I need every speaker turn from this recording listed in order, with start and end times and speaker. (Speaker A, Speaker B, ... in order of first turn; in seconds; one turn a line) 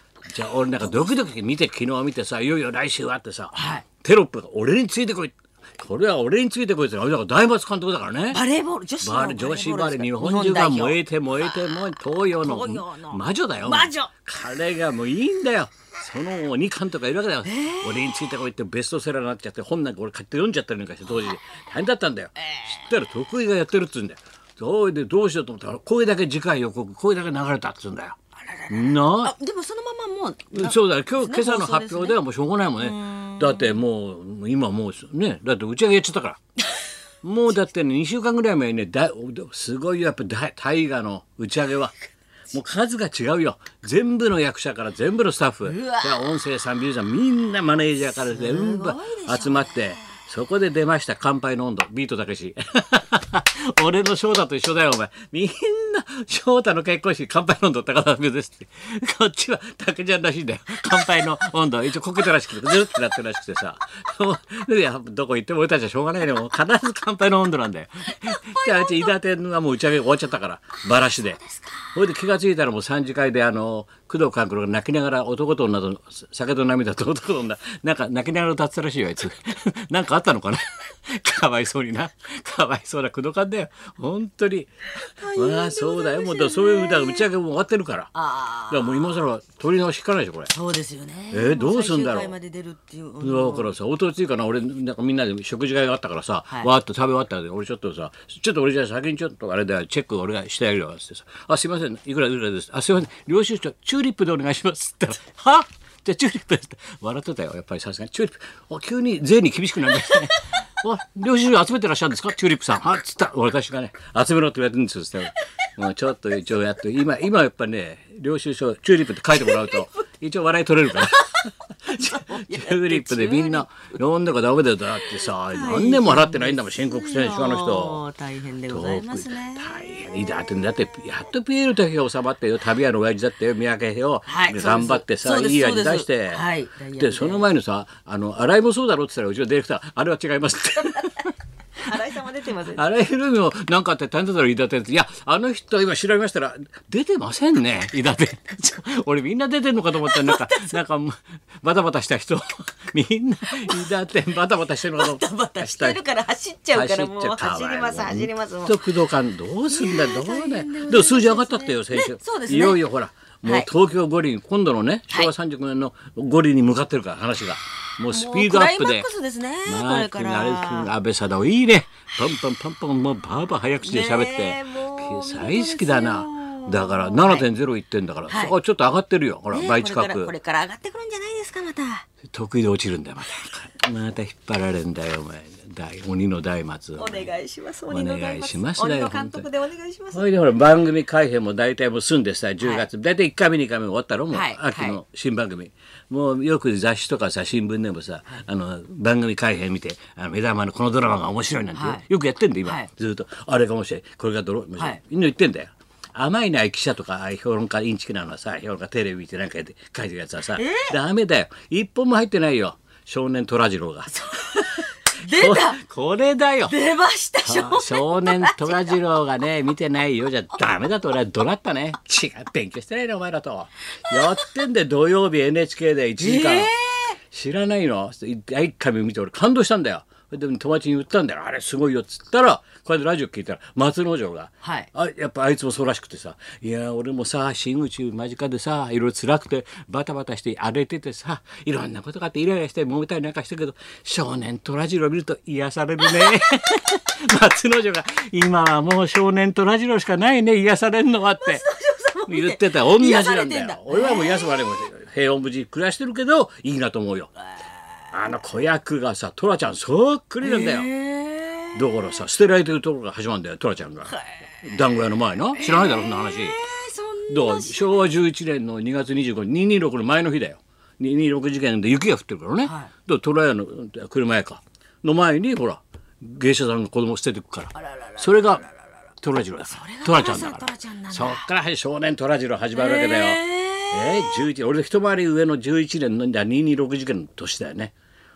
Speaker A: 0.3-8.4
Speaker B: 3.5-3.8
Speaker B: 8.3-14.1
Speaker A: 9.0-28.2
Speaker B: 17.4-18.2
Speaker B: 22.5-22.8
Speaker B: 28.5-32.2
Speaker A: 28.7-29.3
Speaker A: 30.5-36.4
Speaker B: 32.8-33.8
Speaker A: 37.2-42.0
Speaker A: 42.5-88.1
Speaker B: 45.6-46.2
Speaker B: 48.3-50.0
Speaker B: 68.1-69.1
Speaker B: 71.4-72.0
Speaker B: 85.0-87.2
Speaker B: 88.1-89.2
Speaker A: 88.7-90.5
Speaker B: 90.5-93.7
Speaker A: 91.3-92.3
Speaker A: 93.2-128.0
Speaker B: 119.4-119.8
Speaker B: 120.9-123.6
Speaker B: 125.0-129.7
Speaker A: 128.7-136.4
Speaker B: 134.3-137.4
Speaker A: 136.9-141.3
Speaker B: 141.8-142.8
Speaker A: 141.9-156.0
Speaker B: 150.1-150.8
Speaker B: 154.9-158.8
Speaker A: 156.7-169.1
Speaker B: 159.7-162.8
Speaker B: 163.4-163.7
Speaker B: 168.1-170.9
Speaker A: 169.6-180.3
Speaker B: 173.8-177.5
Speaker B: 178.3-178.5
Speaker B: 179.5-182.1
Speaker A: 182.2-187.3
Speaker B: 187.0-190.2
Speaker A: 187.9-189.5
Speaker A: 190.1-216.8
Speaker B: 192.6-192.8
Speaker B: 194.3-195.0
Speaker B: 201.7-202.0
Speaker B: 202.6-202.9
Speaker B: 210.6-210.9
Speaker B: 214.2-215.8
Speaker B: 216.7-219.0
Speaker A: 217.4-251.6
Speaker B: 224.1-224.4
Speaker B: 226.2-227.2
Speaker B: 234.6-234.9
Speaker B: 251.4-254.6
Speaker A: 252.3-257.3
Speaker A: 258.1-260.9
Speaker B: 260.4-262.1
Speaker A: 261.7-266.6
Speaker B: 264.1-264.4
Speaker B: 265.5-268.1
Speaker A: 267.3-278.7
Speaker B: 272.6-272.9
Speaker B: 277.9-278.6
Speaker A: 279.2-287.9
Speaker B: 279.7-281.4
Speaker B: 282.8-284.4